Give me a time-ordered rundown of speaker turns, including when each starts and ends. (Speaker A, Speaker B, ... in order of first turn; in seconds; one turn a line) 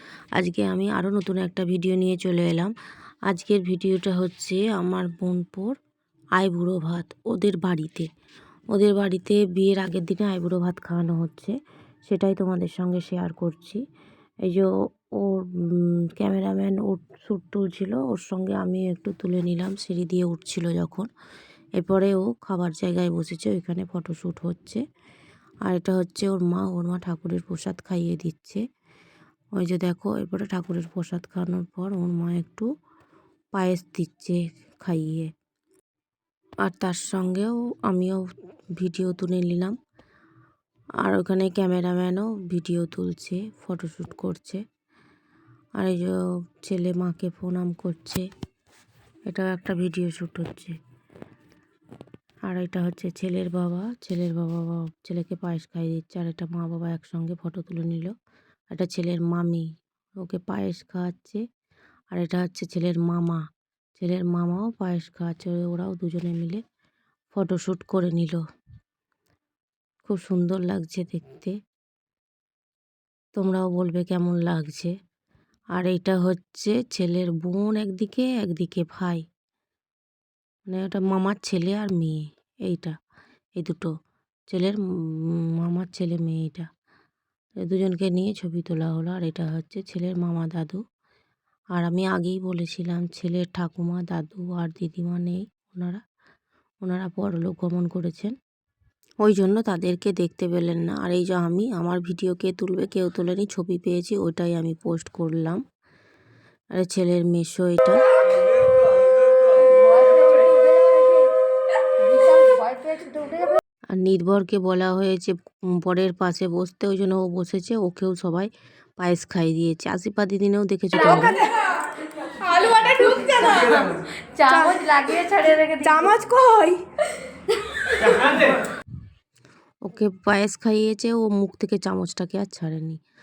Speaker A: 0.3-2.7
Speaker A: 3.3-5.7
Speaker A: 6.3-8.1
Speaker A: 8.7-11.5
Speaker A: 12.1-13.8
Speaker A: 15.2-21.1
Speaker A: 21.8-24.8
Speaker A: 25.6-28.6
Speaker A: 29.6-32.6
Speaker A: 33.5-35.3
Speaker A: 36.6-38.2
Speaker A: 38.8-39.7
Speaker A: 41.0-44.6
Speaker A: 45.8-48.2
Speaker A: 49.3-50.7
Speaker A: 52.5-58.1
Speaker A: 58.7-59.6
Speaker A: 60.2-61.4
Speaker A: 62.1-63.4
Speaker A: 64.0-66.6
Speaker A: 67.3-68.4
Speaker A: 70.0-71.5
Speaker A: 73.4-74.9
Speaker A: 75.7-79.2
Speaker A: 80.7-82.9
Speaker A: 83.6-83.9
Speaker A: 84.5-86.7
Speaker A: 87.6-90.8
Speaker A: 91.7-96.0
Speaker A: 96.8-98.3
Speaker A: 99.2-105.6
Speaker A: 106.7-108.0
Speaker B: 109.5-111.3
Speaker B: 112.0-113.6
Speaker A: 114.0-121.4
Speaker C: 121.0-121.5
Speaker B: 121.0-121.4
Speaker B: 122.4-126.1
Speaker C: 122.6-123.8
Speaker C: 124.5-124.8
Speaker C: 125.8-126.8
Speaker A: 129.8-133.0